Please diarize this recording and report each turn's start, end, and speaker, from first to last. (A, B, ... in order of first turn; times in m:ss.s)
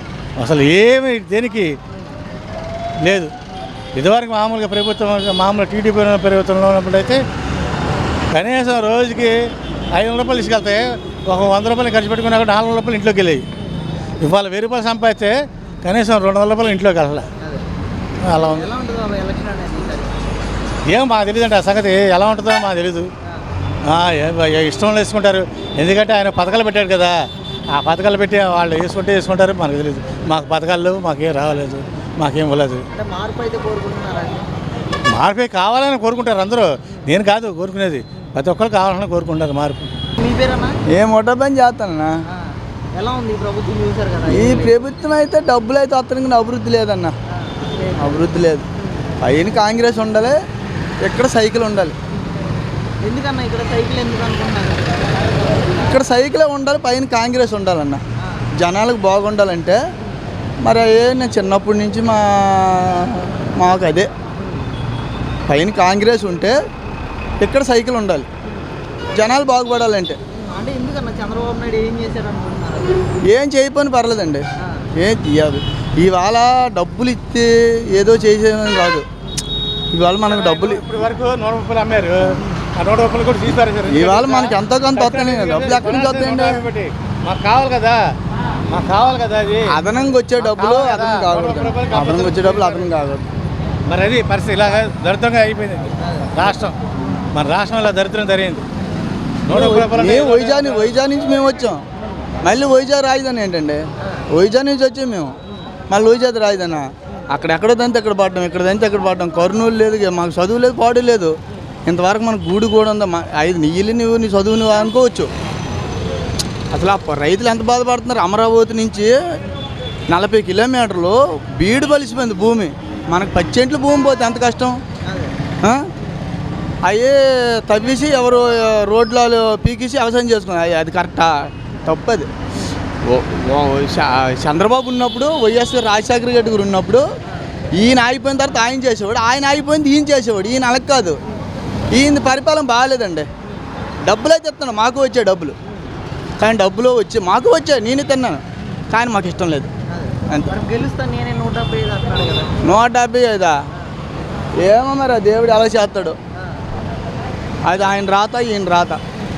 0:00.4-0:01.8 A
0:03.0-0:03.3 A
0:03.9-0:07.2 A
0:08.3-0:09.3 A
0:09.9-0:13.4 A
0:14.2-0:17.3 A
0:17.4-0:17.6 B
0:18.3-0:18.7 A
0:18.4-0:20.2 B
0:20.9-0:23.1 A
0:23.8-0:27.1 A
0:27.7-0:32.8 A
0:32.9-0:34.5 B
0:35.1-0:39.9 A
0:40.2-0:40.8 B
0:40.9-0:42.1 C
0:42.3-0:44.8 B
0:44.3-0:47.1 C
0:47.3-0:49.1 B
0:48.0-0:48.6 C
0:49.2-0:50.4 C
0:51.0-0:52.0 C
0:53.0-0:55.1 B
0:55.8-0:58.0 C
0:58.6-0:59.8 C
1:00.6-1:04.1 C
1:05.5-1:06.6 C
1:07.4-1:08.3 C
1:09.1-1:10.2 C
1:10.4-1:13.0 B
1:13.3-1:14.4 C
1:15.0-1:19.0 C
1:19.9-1:20.8 C
1:20.2-1:28.0 A
1:23.9-1:26.6 C
1:28.7-1:29.8 A
1:29.7-1:33.2 C
1:30.4-1:33.1 A
1:33.8-1:36.8 A
1:37.3-1:38.6 A
1:39.4-1:41.0 A
1:39.5-1:41.8 C
1:42.4-1:43.8 C
1:44.3-1:45.3 C
1:45.9-1:55.3 C
1:56.7-1:59.1 C
2:00.1-2:04.8 C
2:05.1-2:05.4 B
2:06.8-2:12.3 C
2:13.0-2:17.0 C
2:17.8-2:21.2 C
2:21.9-2:23.3 C
2:24.0-2:25.5 C
2:26.4-2:29.7 C
2:29.9-2:32.5 B
2:30.3-2:30.6 C
2:32.6-2:33.6 C
2:34.6-2:36.2 C
2:37.6-2:39.0 C